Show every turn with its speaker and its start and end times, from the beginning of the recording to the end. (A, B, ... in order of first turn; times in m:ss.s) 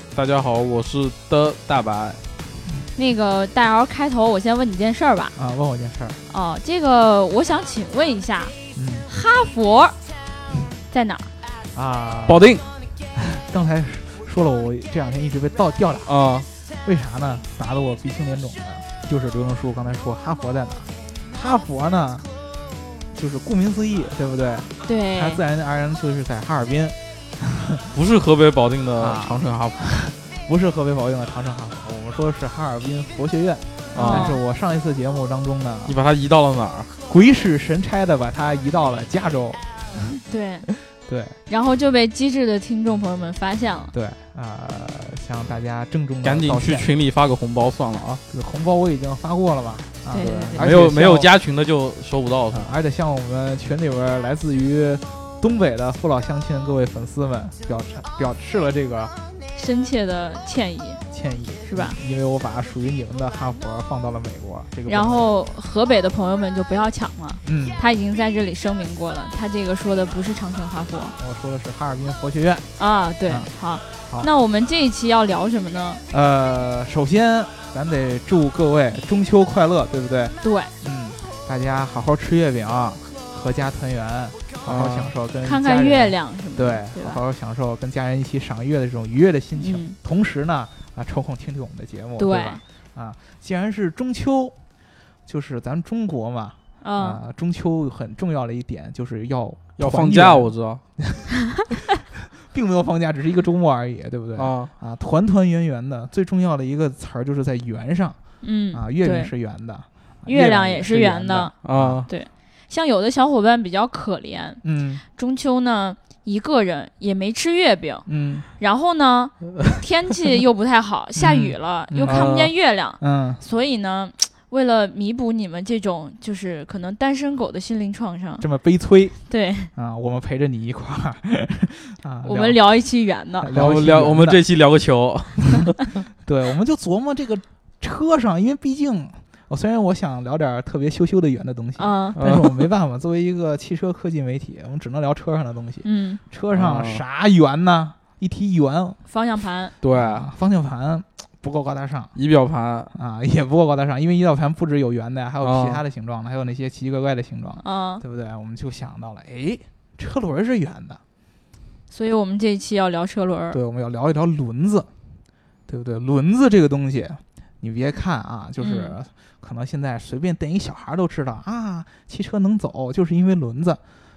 0:00.1-0:02.2 A
0:03.0-0:05.4 B
0:05.4-0:06.2 C
0:06.3-0:08.6 B
0:08.8-0:09.1 C
0:09.1-0:10.0 B
0:10.9-0:11.3 B
0:11.7-0:12.6 C
0:12.3-0:12.6 A
0:13.2-0:16.2 C
0:16.1-0:16.5 A
0:16.8-0:22.3 C
0:23.1-0:27.9 C
0:24.8-0:25.4 B
0:27.9-0:29.9 A
0:29.0-0:36.0 C
0:33.9-0:34.4 A
0:34.0-0:34.4 B
0:35.9-0:36.9 A
0:37.1-0:40.0 C
0:40.3-0:40.7 B
0:40.9-0:41.4 C
0:41.5-0:43.9 B
0:43.9-0:46.9 C
0:46.2-0:48.2 A
0:48.3-0:51.3 C
0:50.1-0:50.7 B
0:50.2-0:52.7 A
0:52.5-0:59.1 C
0:59.6-1:01.0 B
1:01.1-1:05.3 C
1:01.7-1:02.0 B
1:04.9-1:11.2 B
1:07.4-1:07.8 C
1:11.2-1:12.6 C
1:12.8-1:16.0 B
1:16.1-1:34.6 C
1:20.4-1:20.7 B
1:24.6-1:25.1 A
1:25.4-1:27.2 B
1:29.6-1:30.0 B
1:32.2-1:32.6 B
1:35.3-1:41.3 C
1:36.8-1:37.2 B
1:39.8-1:40.8 A
1:42.2-1:48.2 C
1:44.4-1:44.7 A
1:48.4-1:49.3 B
1:48.7-1:52.1 C
1:50.3-1:51.5 B
1:51.6-1:52.1 A
1:52.1-1:54.6 B
1:54.6-1:55.0 C
1:55.2-2:08.4 B
1:58.1-1:58.5 C
2:01.2-2:02.3 C
2:02.1-2:02.5 A
2:03.0-2:03.4 C
2:08.4-2:09.2 C
2:09.3-2:09.7 B
2:09.7-2:12.6 C
2:12.2-2:13.5 B
2:13.4-2:14.4 C
2:13.5-2:15.8 A
2:16.2-2:29.0 C
2:21.8-2:22.2 B
2:22.2-2:22.7 A
2:25.8-2:26.2 B
2:26.5-2:27.0 A
2:29.1-2:29.8 B
2:29.8-2:30.3 A
2:29.9-2:32.2 C
2:32.2-2:32.9 A
2:32.9-2:41.0 C
2:35.4-2:35.8 A
2:37.6-2:38.0 B
2:41.9-2:43.6 B
2:43.5-2:44.9 C
2:45.7-2:53.8 C
2:48.6-2:49.0 B